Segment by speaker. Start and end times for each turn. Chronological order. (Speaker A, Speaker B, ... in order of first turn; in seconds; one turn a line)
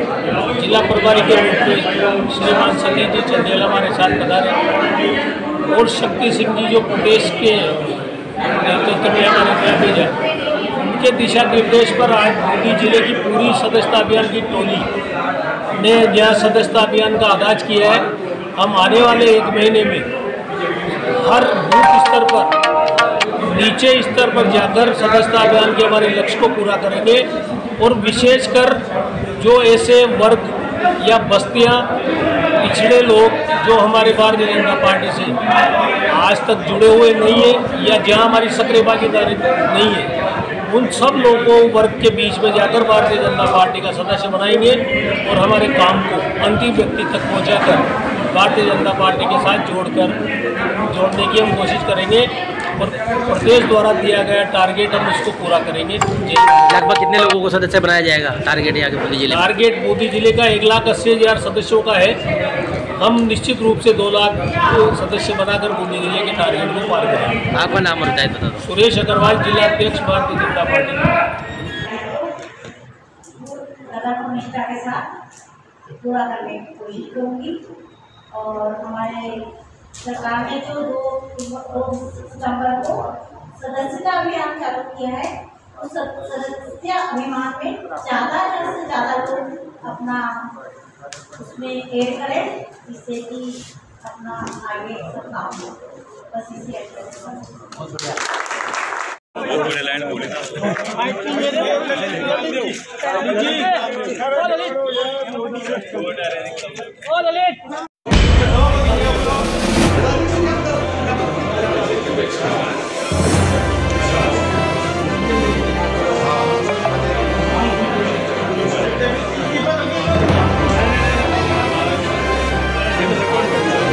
Speaker A: 0.5-4.6
Speaker A: 5.7-7.8
Speaker A: 8.6-10.2
Speaker A: 10.8-14.9
Speaker A: 15.7-20.1
Speaker A: 21.1-22.5
Speaker A: 23.4-28.8
Speaker A: 29.4-31.9
Speaker A: 32.6-35.4
Speaker A: 36.1-40.1
Speaker A: 40.6-50.2
Speaker A: 50.8-56.6
Speaker B: 56.6-59.4
Speaker A: 59.3-62.2
Speaker A: 63.0-67.4
Speaker B: 67.5-68.7
Speaker A: 68.6-71.1
Speaker C: 71.8-72.4
Speaker C: 73.4-75.1
Speaker C: 75.9-77.6
Speaker C: 78.3-79.5
Speaker C: 80.0-90.5
Speaker C: 91.3-97.8